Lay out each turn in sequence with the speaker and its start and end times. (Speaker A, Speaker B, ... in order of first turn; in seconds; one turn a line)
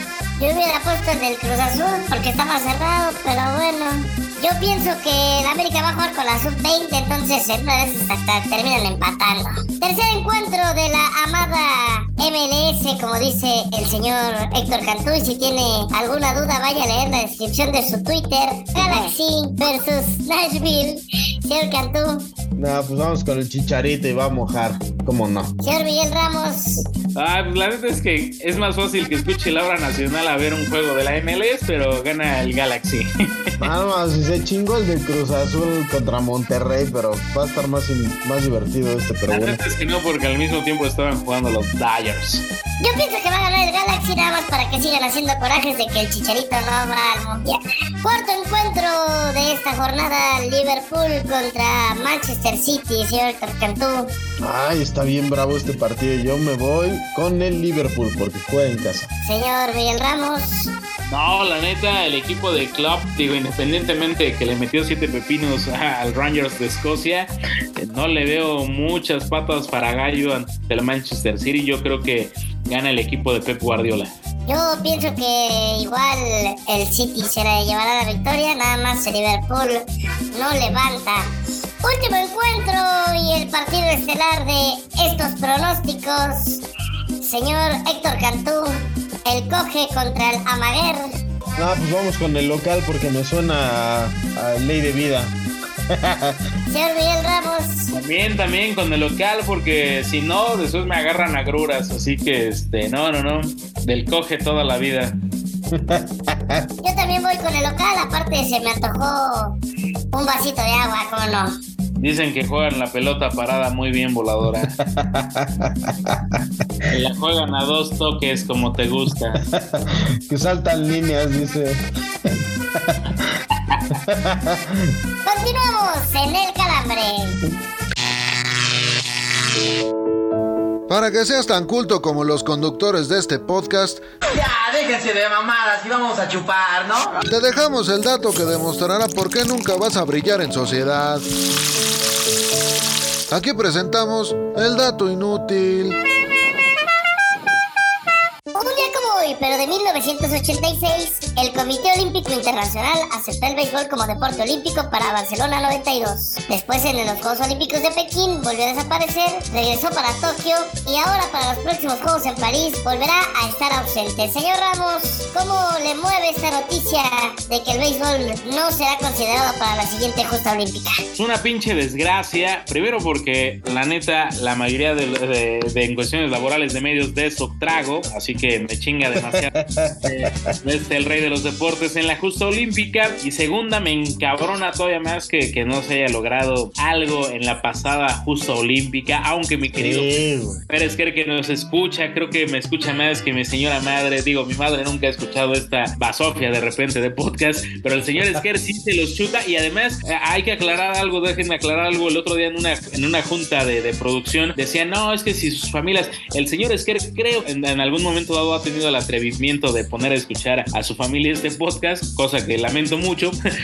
Speaker A: 0.4-22.3
Speaker B: 22.6-25.5
Speaker A: 25.6-26.8
Speaker C: 27.1-33.7
Speaker B: 33.6-39.6
Speaker C: 39.3-42.4
Speaker A: 42.8-54.1
Speaker B: 54.4-59.1
Speaker A: 59.2-60.7
Speaker C: 61.1-74.1
Speaker A: 74.5-81.3
Speaker A: 81.8-86.6
Speaker A: 87.2-91.1
Speaker B: 91.6-95.3
Speaker B: 95.9-96.4
Speaker A: 96.7-97.9
Speaker C: 97.9-105.1
Speaker B: 105.7-106.7
Speaker A: 106.8-109.6
Speaker A: 110.1-111.5
Speaker C: 112.0-114.8
Speaker B: 114.8-116.4
Speaker C: 116.9-119.4
Speaker B: 119.3-123.4
Speaker B: 123.9-124.9
Speaker A: 125.2-127.4
Speaker D: 130.9-134.0
Speaker E: 134.3-137.2
Speaker D: 137.2-141.2
Speaker D: 143.3-146.0
Speaker A: 148.5-171.0
Speaker C: 171.1-213.3
Speaker B: 179.2-180.5
Speaker B: 189.7-190.6